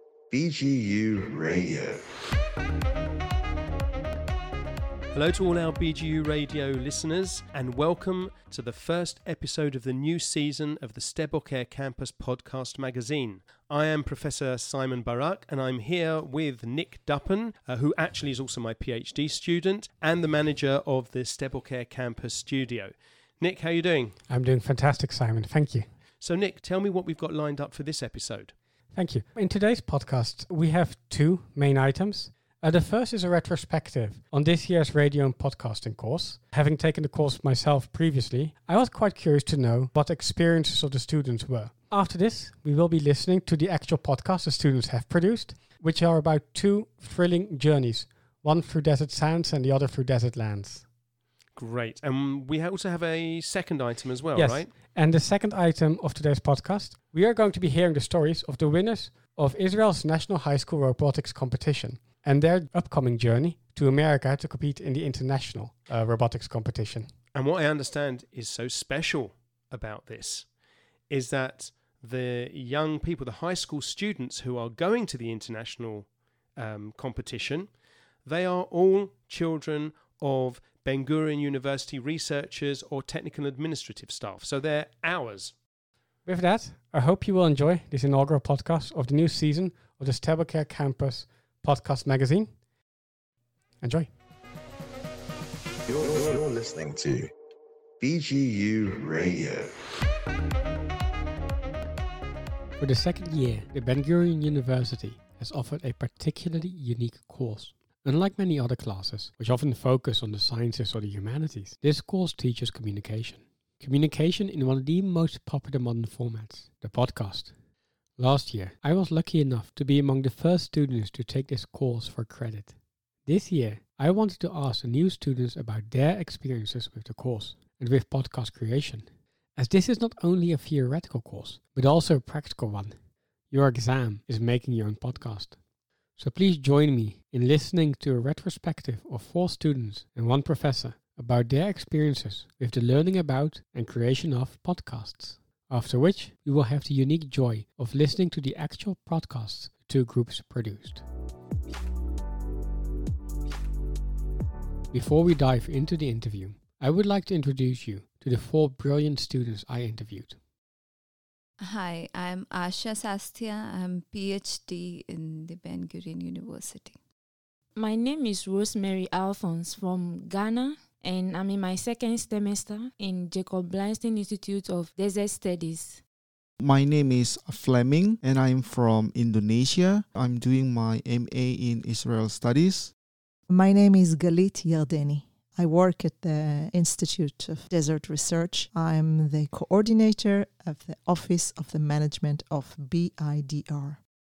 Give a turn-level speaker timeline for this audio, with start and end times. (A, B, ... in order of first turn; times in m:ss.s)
0:00.3-0:02.0 A
0:05.1-0:24.2 B
0:24.3-0:25.9 C
0:26.2-0:28.5 B
0:28.9-0:50.9 C
0:51.6-0:54.7 B
0:54.3-1:07.1 C
1:07.3-1:10.5 B
1:11.1-1:17.7 B
1:18.2-1:25.6 B
1:26.2-1:32.6 C
1:33.8-1:34.1 C
1:35.9-1:37.3 A
1:38.0-1:39.7 A
1:42.8-1:57.5 C
1:58.2-2:15.6 C
2:16.1-2:31.0 C
2:34.9-2:40.4 C
2:41.6-2:47.0 D
2:47.8-2:56.0 E
2:56.6-3:02.9 F
3:03.5-3:14.0 G